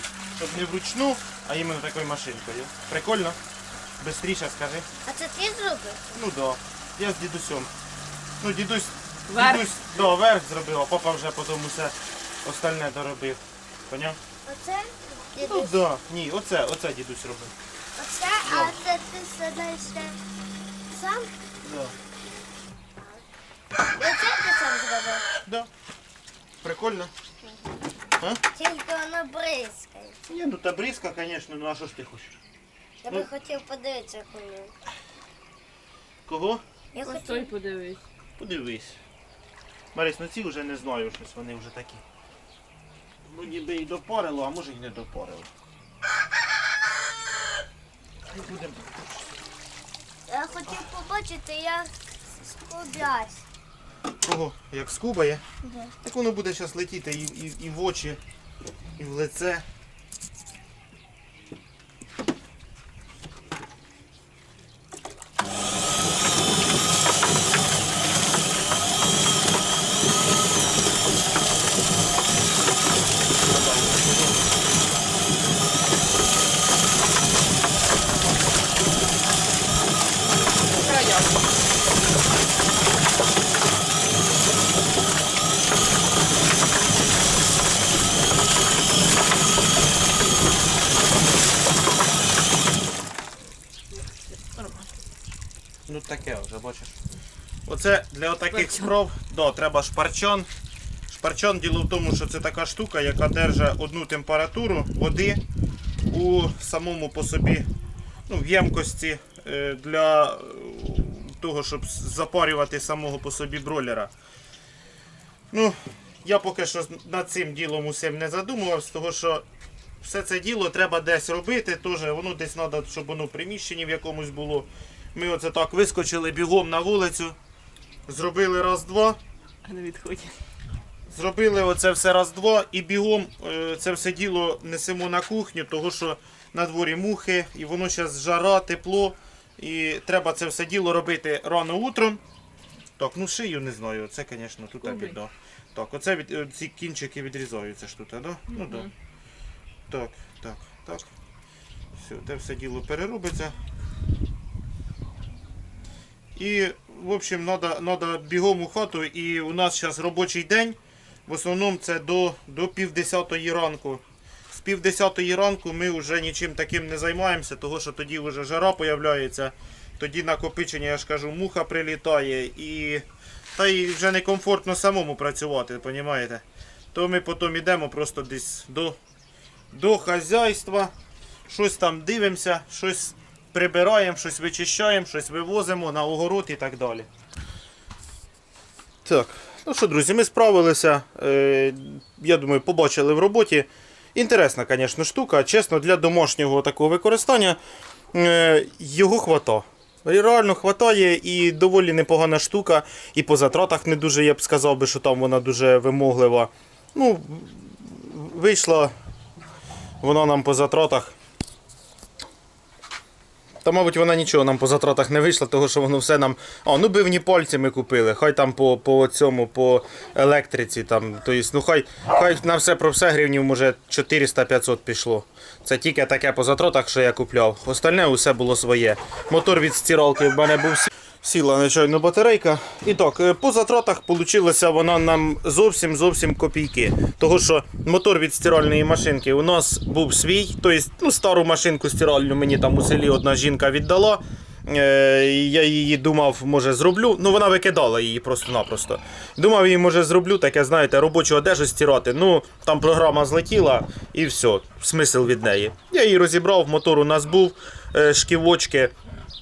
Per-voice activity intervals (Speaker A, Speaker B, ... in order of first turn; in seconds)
Speaker A: 0.3-3.4, 4.0-4.9, 6.1-7.7, 8.4-14.2, 15.4-17.5, 18.5-18.7, 21.6-21.9, 26.6-27.1, 30.3-32.3, 36.2-36.6, 38.4-39.0, 39.9-42.0, 43.3-45.5, 48.3-49.2, 54.2-55.4, 56.0-58.2, 59.0-59.6, 73.5-74.3, 95.9-96.9, 97.7-100.5, 101.1-105.4, 106.1-107.7, 108.3-114.1, 115.5-119.4, 120.0-127.3, 128.1-129.2, 131.1-142.2, 143.0-148.9, 149.9-151.1, 151.9-153.6, 156.3-173.0, 173.5-179.0, 179.7-180.9, 181.5-187.1, 189.0-197.6, 198.1-208.9, 210.0-211.1, 213.6-258.9
Speaker B: 5.0-6.0, 14.4-15.7, 18.0-20.2, 20.9-21.3, 23.9-25.2, 28.5-30.2, 33.0-34.7, 36.9-37.5, 50.3-53.4, 55.6-55.9
Speaker C: 9.3-9.7, 37.0-38.0, 80.7-81.8, 94.3-94.9, 98.6-98.8, 129.6-130.3, 144.8-145.1, 148.5-148.9